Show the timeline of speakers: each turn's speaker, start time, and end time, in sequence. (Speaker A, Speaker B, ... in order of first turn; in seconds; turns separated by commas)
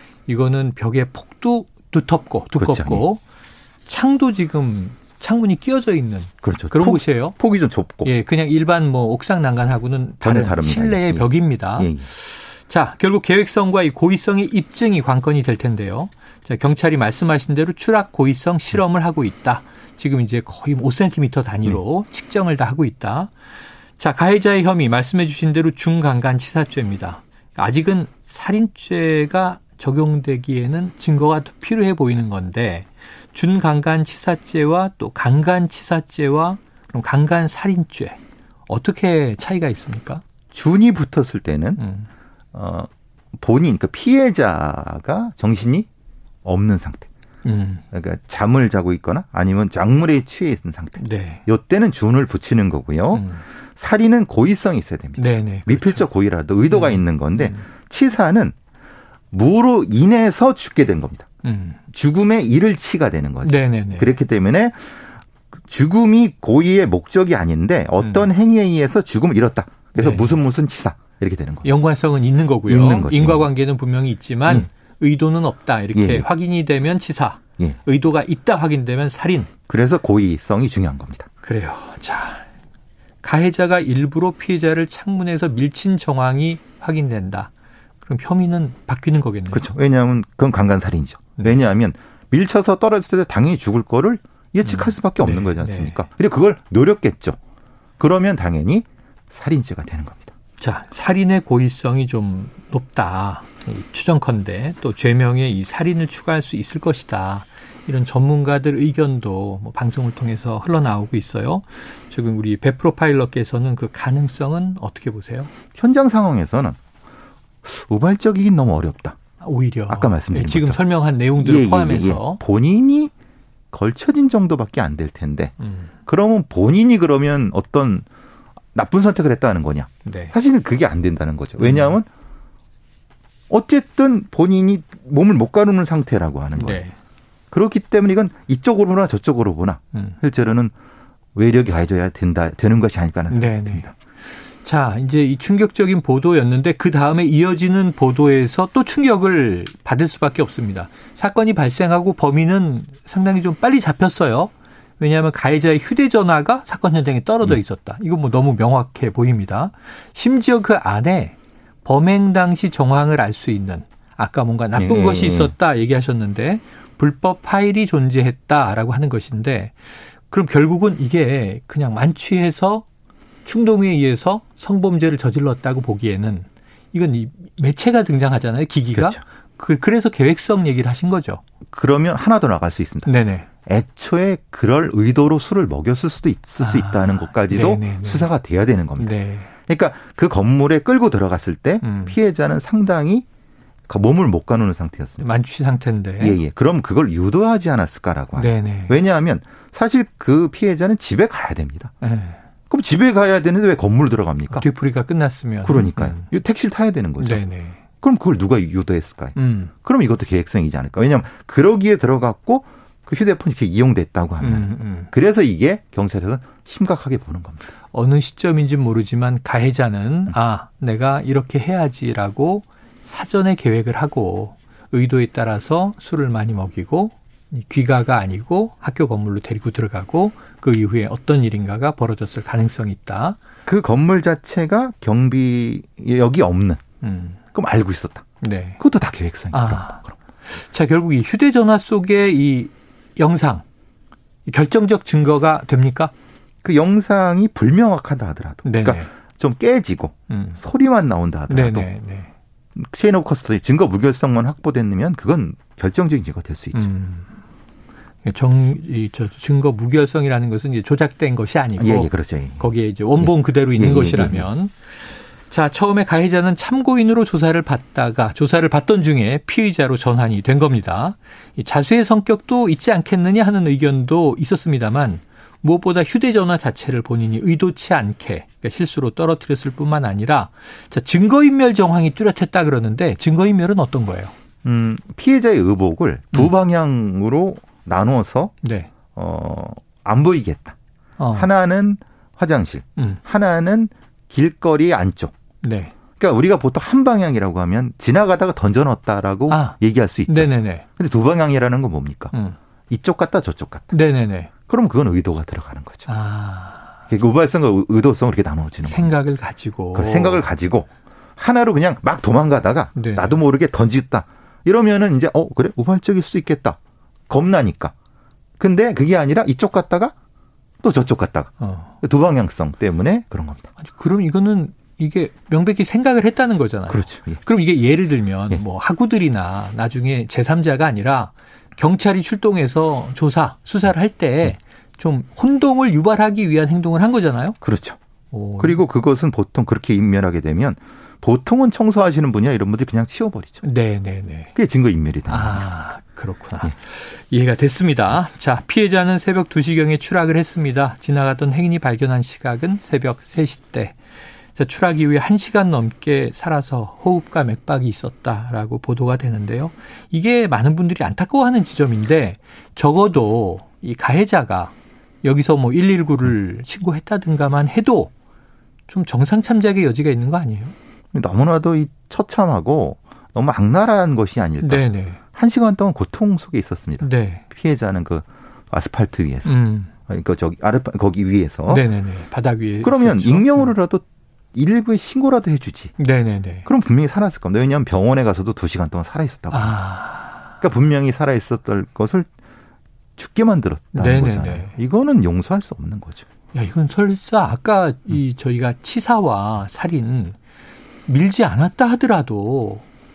Speaker A: 0.3-3.2, Speaker B: 2.5-3.1, Speaker A: 3.9-7.3, Speaker B: 6.4-8.1, Speaker A: 8.0-23.3, Speaker B: 10.2-12.1, Speaker A: 24.0-40.2, Speaker B: 40.5-41.8, Speaker A: 41.8-42.1, Speaker B: 42.5-45.9, Speaker B: 46.4-47.1, Speaker A: 47.4-47.8, Speaker B: 47.9-58.5, Speaker A: 51.0-51.4, Speaker A: 53.1-53.4, Speaker A: 55.2-56.1, Speaker A: 56.7-57.6, Speaker B: 59.3-61.3, Speaker A: 61.4-61.8, Speaker B: 61.9-64.8, Speaker A: 63.4-64.1, Speaker B: 65.7-71.8, Speaker A: 68.0-68.3, Speaker A: 69.9-70.4, Speaker A: 71.6-79.5, Speaker B: 72.7-73.5, Speaker B: 75.9-76.3, Speaker B: 79.7-81.3, Speaker A: 81.4-82.4, Speaker A: 83.2-87.5, Speaker A: 88.0-89.7, Speaker B: 89.5-97.4, Speaker A: 94.6-96.0, Speaker B: 98.0-100.3, Speaker A: 100.6-115.5, Speaker B: 115.7-116.8, Speaker B: 117.6-119.2, Speaker A: 119.4-122.4, Speaker B: 119.9-120.8, Speaker B: 121.4-123.1, Speaker B: 123.7-125.5, Speaker A: 125.6-125.9, Speaker B: 126.0-128.0, Speaker B: 128.7-132.1, Speaker A: 130.0-130.3, Speaker A: 131.6-131.9, Speaker B: 133.5-136.8, Speaker A: 136.6-136.9, Speaker B: 137.5-140.7, Speaker B: 141.3-143.9, Speaker A: 143.3-143.9, Speaker A: 144.6-169.8, Speaker B: 164.8-165.5, Speaker A: 170.3-172.8, Speaker A: 173.4-181.4, Speaker B: 178.9-179.2, Speaker B: 181.7-183.1, Speaker A: 183.1-183.5, Speaker B: 183.7-189.1, Speaker A: 186.6-188.3, Speaker A: 189.0-189.5, Speaker B: 189.7-193.2, Speaker A: 191.8-192.2, Speaker B: 193.9-195.3, Speaker A: 195.2-196.4, Speaker B: 196.2-201.9, Speaker A: 198.4-199.0, Speaker A: 202.0-202.4, Speaker B: 202.7-204.7, Speaker A: 204.5-206.3, Speaker B: 205.6-207.4, Speaker A: 207.2-207.8, Speaker B: 208.0-217.7, Speaker A: 209.3-209.7, Speaker A: 214.4-215.1, Speaker A: 217.9-233.4, Speaker B: 233.7-236.8, Speaker A: 237.0-237.4, Speaker B: 237.5-238.2, Speaker A: 238.4-238.8, Speaker B: 238.8-240.1, Speaker A: 239.5-243.6, Speaker A: 244.4-246.1, Speaker B: 246.6-251.9, Speaker A: 248.6-249.1, Speaker A: 250.3-250.6, Speaker A: 251.5-252.3, Speaker B: 252.8-256.9, Speaker A: 256.7-257.3, Speaker A: 258.2-284.3, Speaker B: 261.8-264.5, Speaker B: 284.6-288.5, Speaker A: 288.6-288.9, Speaker B: 289.1-290.7, Speaker A: 291.2-291.5, Speaker B: 291.3-295.3, Speaker A: 295.6-295.9, Speaker B: 296.2-302.3, Speaker A: 299.5-299.8, Speaker A: 300.3-300.8, Speaker A: 302.3-302.6, Speaker B: 302.9-303.9, Speaker A: 303.9-304.5, Speaker B: 304.7-306.1, Speaker A: 306.1-306.9, Speaker B: 307.1-309.1, Speaker A: 308.8-310.4, Speaker B: 309.9-316.8, Speaker A: 312.9-313.4, Speaker B: 317.3-317.9, Speaker B: 318.6-320.1, Speaker B: 320.8-323.7, Speaker A: 321.6-321.9, Speaker A: 323.8-337.6, Speaker B: 326.9-327.4, Speaker B: 337.6-338.0, Speaker A: 338.3-338.8, Speaker B: 338.6-343.6, Speaker A: 343.6-344.5, Speaker B: 344.5-345.7, Speaker A: 345.3-354.0, Speaker A: 354.6-368.1, Speaker A: 368.9-370.7, Speaker B: 371.1-379.5, Speaker A: 374.6-375.2, Speaker A: 377.0-377.4, Speaker A: 379.4-379.9, Speaker B: 380.1-381.9, Speaker A: 381.7-383.7, Speaker B: 382.8-385.9, Speaker A: 386.0-386.7, Speaker B: 386.6-389.8, Speaker A: 389.5-390.5, Speaker B: 390.6-392.3, Speaker B: 393.2-396.3, Speaker A: 393.9-394.7, Speaker A: 396.5-400.4, Speaker A: 401.1-402.8